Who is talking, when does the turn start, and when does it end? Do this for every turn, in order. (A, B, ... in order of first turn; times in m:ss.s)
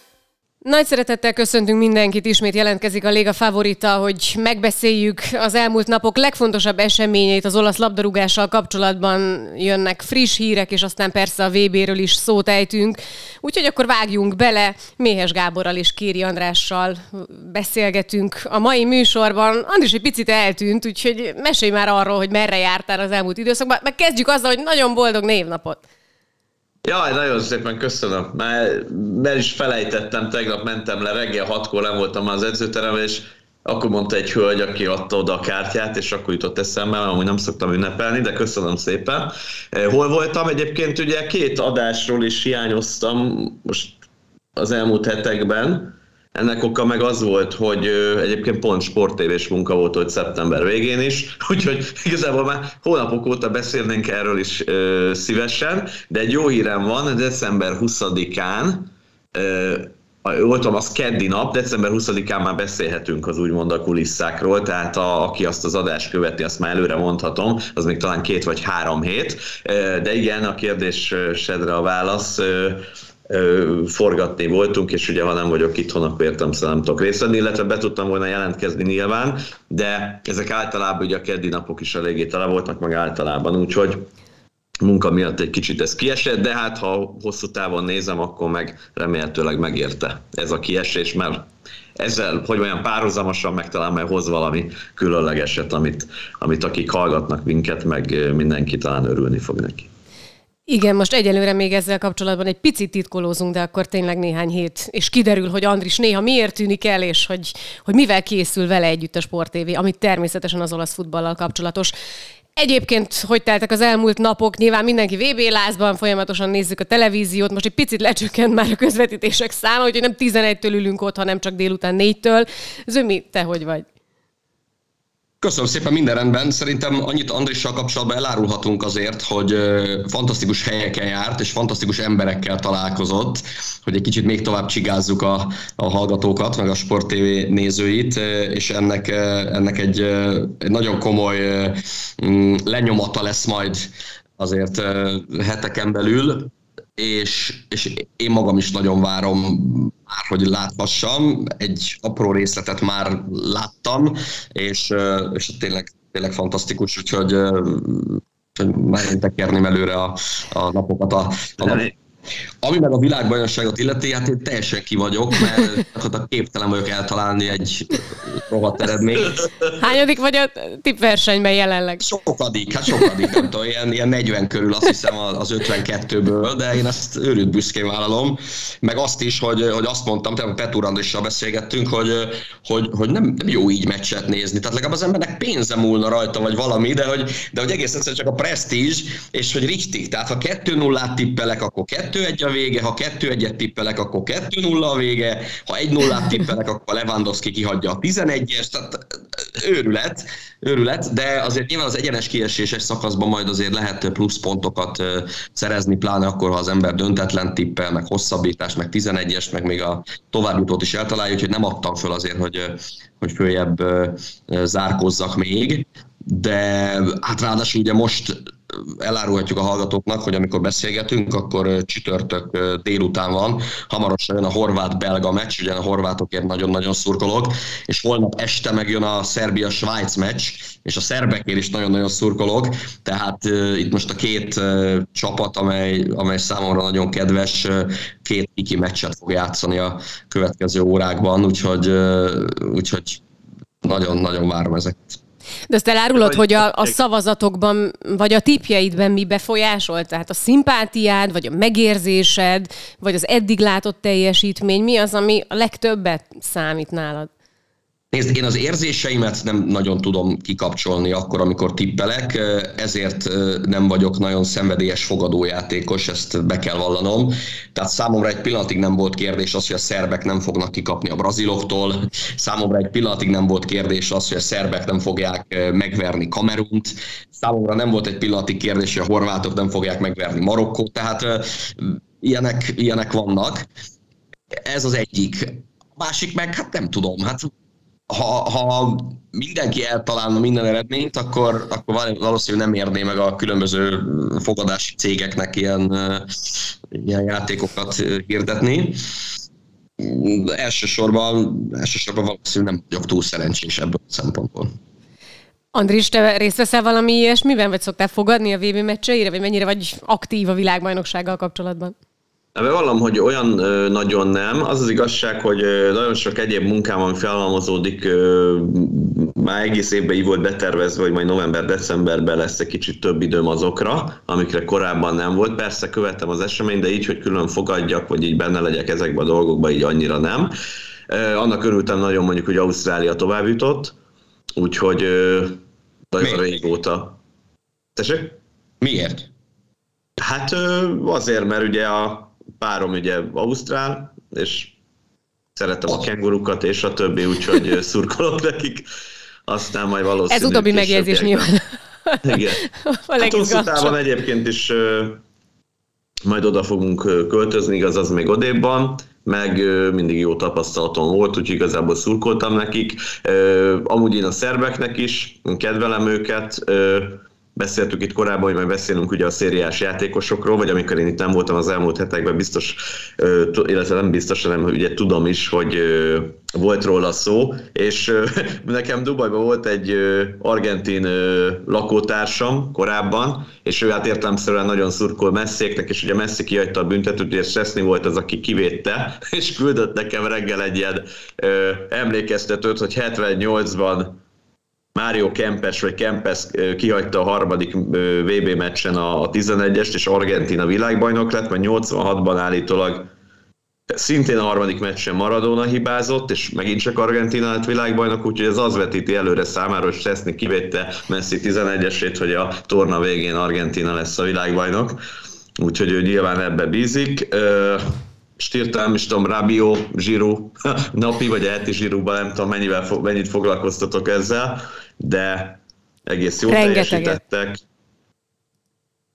0:00.6-0:25.8 A
0:26.8-0:44.0 B
0:44.6-1:24.1 B
1:24.8-1:39.9 B
1:40.7-1:51.9 A
1:52.6-2:03.9 A
2:05.4-2:41.9 C
2:41.6-2:41.9 B
2:42.6-2:49.4 C
2:49.8-2:52.0 A
2:52.0-4:03.2 C
4:03.8-4:05.2 C
4:05.7-4:17.3 A
4:18.1-4:43.7 C
4:44.5-4:47.5 C
4:48.1-4:59.0 C
5:00.0-5:04.8 C
5:05.7-5:12.0 A
5:12.6-5:30.5 B
5:31.1-5:34.0 B
5:34.6-5:35.6 B
5:36.1-5:37.2 B
5:38.0-5:38.4 B
5:38.8-5:39.3 C
5:40.2-5:44.8 B
5:45.6-5:48.9 B
5:49.5-5:51.5 B
5:50.3-5:54.0 A
5:52.2-5:52.6 B
5:53.2-5:55.2 B
5:56.2-6:34.2 B
6:35.0-6:43.1 B
6:43.9-6:55.0 B
6:55.6-7:07.6 B
7:06.4-7:07.2 A